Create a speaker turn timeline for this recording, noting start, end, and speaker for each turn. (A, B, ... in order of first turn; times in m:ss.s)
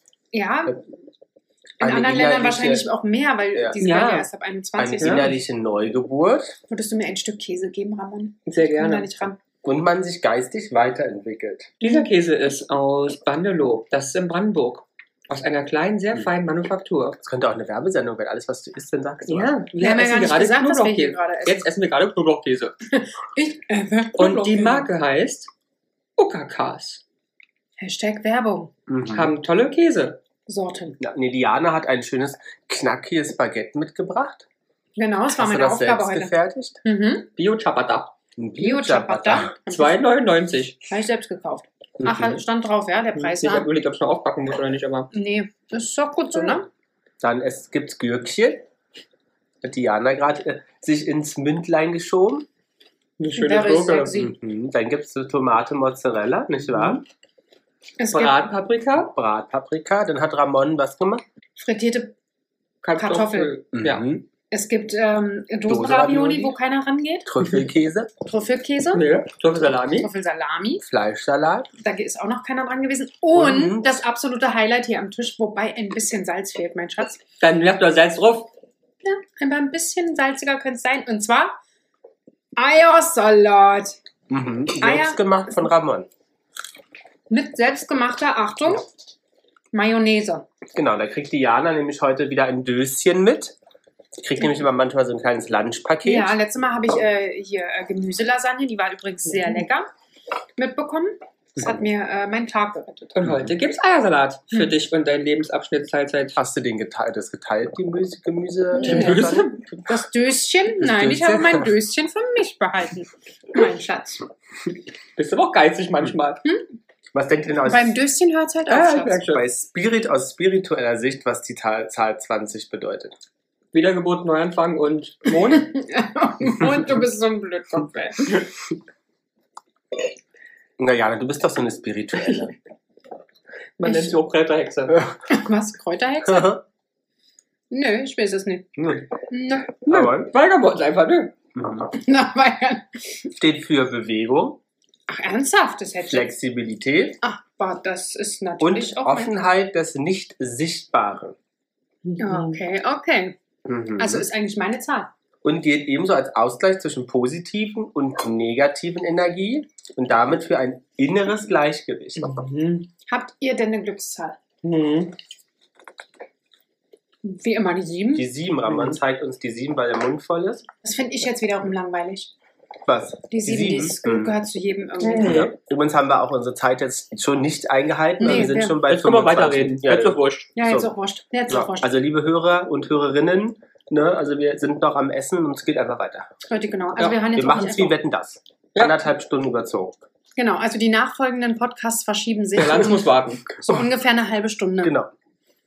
0:00.3-0:00.8 A
0:01.8-0:02.8 B
0:01.8-0:05.4 A
0:03.8-0:04.3 C
0:04.8-0:06.6 B
0:05.0-0:05.3 C
0:06.7-0:09.4 A
0:08.5-0:09.1 C
0:09.6-0:11.7 B
0:11.8-0:17.2 C
0:17.2-0:19.5 B
0:19.2-0:22.8 C
0:19.8-0:21.7 A
0:22.9-0:24.9 A
0:24.2-0:25.5 C
0:26.2-0:27.0 C
0:27.8-0:28.7 A
0:28.9-0:29.3 B
0:29.1-0:30.2 C
0:30.5-0:31.0 A
0:31.0-0:34.5 B
0:35.0-0:37.3 A
0:35.4-0:36.8 B
0:37.4-0:38.1 C
0:38.4-0:39.5 B
0:38.6-0:40.0 A
0:39.7-0:40.8 C
0:40.9-0:43.7 A
0:42.0-0:42.4 B
0:43.2-0:45.1 C
0:45.1-0:46.7 A
0:47.2-0:48.7 B
0:49.6-0:52.5 B
0:53.2-0:54.2 C
0:53.4-0:54.4 A
0:54.2-0:57.0 B
0:58.0-0:58.4 A
0:58.1-0:59.1 C
0:59.0-1:01.2 B
1:01.6-1:02.1 A
1:02.8-1:04.0 C
1:03.0-1:03.6 A
1:03.7-1:04.2 B
1:04.5-1:07.3 A
1:05.7-1:06.5 B
1:07.3-1:08.1 B
1:08.2-1:09.1 A
1:08.9-1:10.1 C
1:10.0-1:10.8 A
1:10.8-1:11.7 B
1:11.8-1:17.2 A
1:13.3-1:14.0 B
1:17.4-1:18.5 C
1:19.0-1:21.6 A
1:22.6-1:24.0 A
1:24.3-1:26.1 B
1:24.8-1:25.7 A
1:27.3-1:28.8 A
1:29.7-1:30.5 A
1:30.8-1:33.6 B
1:34.2-1:36.4 B
1:36.0-1:39.9 A
1:40.6-1:43.2 A
1:43.1-1:46.4 C
1:46.4-1:49.5 B
1:48.7-1:49.4 A
1:48.8-1:49.8 C
1:49.9-1:54.2 A
1:50.8-1:51.7 B
1:55.2-1:56.4 C
1:57.1-1:57.9 B
1:57.7-1:59.2 A
1:58.7-1:59.4 C
1:59.3-2:03.2 B
2:03.7-2:05.7 C
2:05.5-2:08.4 A
2:10.8-2:12.6 B
2:13.8-2:15.0 C
2:13.8-2:14.1 A
2:15.3-2:16.6 A
2:16.3-2:16.6 B
2:17.7-2:18.7 A
2:18.8-2:19.0 B
2:19.3-2:19.8 A
2:19.9-2:21.4 C
2:19.9-2:20.3 B
2:21.6-2:21.9 B
2:21.9-2:23.0 A
2:23.4-2:24.6 B
2:25.1-2:26.3 A
2:26.1-2:27.2 B
2:27.2-2:29.3 A
2:28.6-2:31.4 B
2:32.0-2:32.6 C
2:32.2-2:33.4 A
2:33.7-2:34.3 B
2:34.0-2:35.1 A
2:35.4-2:42.4 B
2:42.2-2:42.9 C
2:43.1-2:44.4 A
2:44.6-2:45.1 C
2:47.2-2:48.3 A
2:48.2-2:50.6 B
2:50.8-2:52.3 A
2:52.9-2:54.3 B
2:53.3-2:55.4 A
2:55.0-2:55.5 C
2:55.2-3:00.9 B
2:58.2-2:58.8 A
2:58.3-3:00.5 C
3:00.6-3:01.9 A
3:01.5-3:06.3 B
3:06.5-3:08.0 A
3:07.2-3:10.0 B
3:10.4-3:13.1 A
3:12.6-3:13.5 C
3:13.6-3:13.8 B
3:13.6-3:15.0 A
3:14.8-3:15.1 B